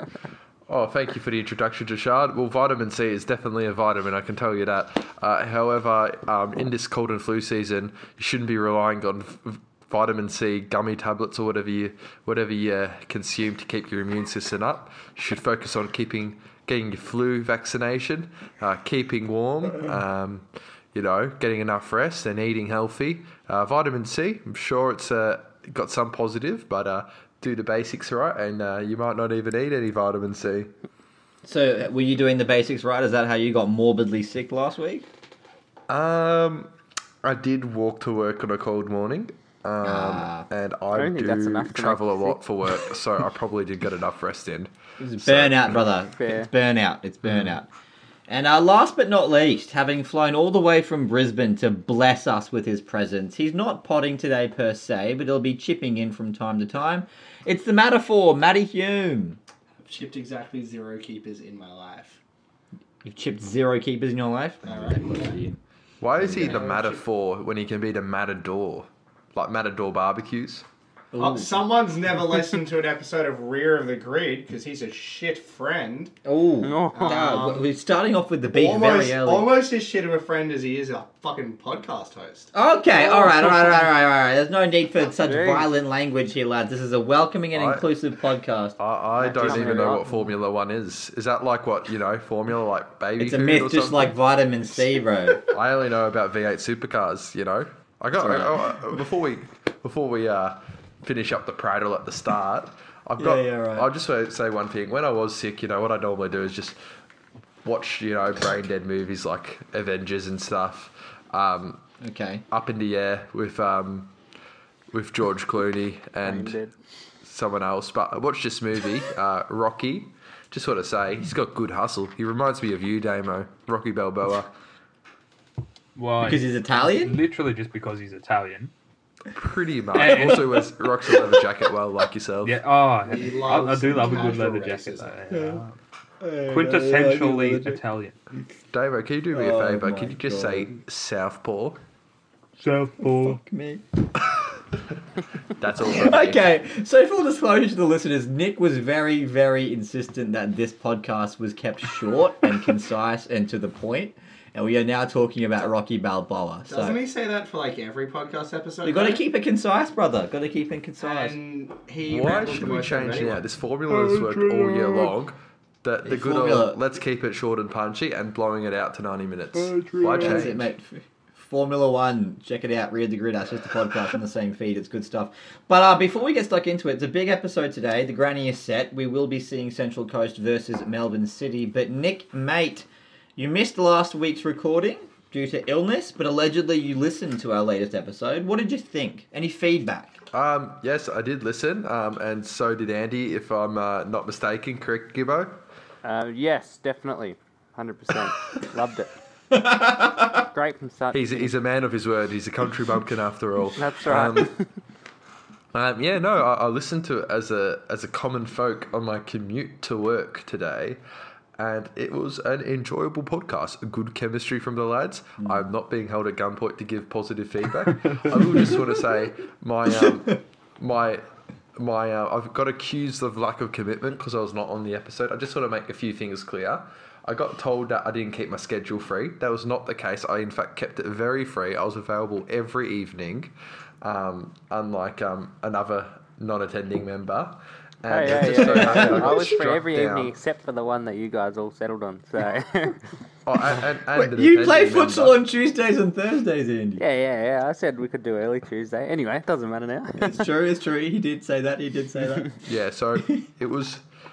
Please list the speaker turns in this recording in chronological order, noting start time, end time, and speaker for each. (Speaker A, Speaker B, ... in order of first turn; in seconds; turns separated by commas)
Speaker A: 0.7-30.7, Speaker B: 31.4-35.1, Speaker A: 35.9-45.8, Speaker B: 39.8-40.5, Speaker C: 40.9-42.4, Speaker B: 45.0-47.7, Speaker C: 46.2-46.5, Speaker B: 48.3-59.4, Speaker D: 59.8-62.2, Speaker B: 63.0-65.6, Speaker D: 64.6-65.4, Speaker A: 66.0-70.7, Speaker B: 66.2-66.7, Speaker D: 66.3-67.0, Speaker B: 71.1-71.6, Speaker D: 71.2-76.2, Speaker B: 76.2-79.5, Speaker C: 76.6-77.2, Speaker D: 76.9-77.7, Speaker D: 78.5-82.5, Speaker B: 82.5-88.8, Speaker C: 82.9-83.9, Speaker C: 85.2-85.7, Speaker A: 87.5-87.8, Speaker A: 88.8-94.1, Speaker C: 89.2-90.2, Speaker B: 89.4-89.9, Speaker B: 93.2-95.5, Speaker A: 95.5-106.8, Speaker B: 98.2-98.7, Speaker B: 103.2-103.9, Speaker A: 107.6-111.8, Speaker B: 112.0-112.4, Speaker A: 112.5-114.1, Speaker A: 114.9-116.6, Speaker C: 116.2-116.7, Speaker A: 117.2-124.5, Speaker E: 125.9-128.7, Speaker B: 126.2-127.2, Speaker A: 129.3-132.6, Speaker E: 129.9-130.7, Speaker E: 132.4-135.8, Speaker D: 133.1-135.3, Speaker B: 135.3-135.6, Speaker B: 136.2-137.8, Speaker E: 136.5-138.2, Speaker A: 138.7-141.8, Speaker B: 139.3-140.7, Speaker E: 142.6-143.4, Speaker B: 143.0-143.8, Speaker A: 145.5-146.4, Speaker B: 145.8-157.0, Speaker D: 156.7-159.2, Speaker B: 158.8-161.4, Speaker D: 161.0-163.4, Speaker A: 162.1-170.7, Speaker D: 164.0-164.9, Speaker B: 166.0-166.8, Speaker D: 169.8-170.5, Speaker B: 170.2-190.2, Speaker A: 190.3-195.6, Speaker C: 196.0-199.1, Speaker B: 199.5-200.4, Speaker C: 200.5-201.5, Speaker A: 201.1-204.5, Speaker C: 203.8-204.6, Speaker A: 205.7-211.0, Speaker A: 211.6-221.2, Speaker B: 215.4-215.7, Speaker A: 221.7-240.3, Speaker C: 238.1-243.0, Speaker B: 238.4-239.4, Speaker A: 243.4-245.4, Speaker B: 244.1-247.0, Speaker C: 247.0-250.5, Speaker B: 250.2-252.6, Speaker A: 252.6-254.0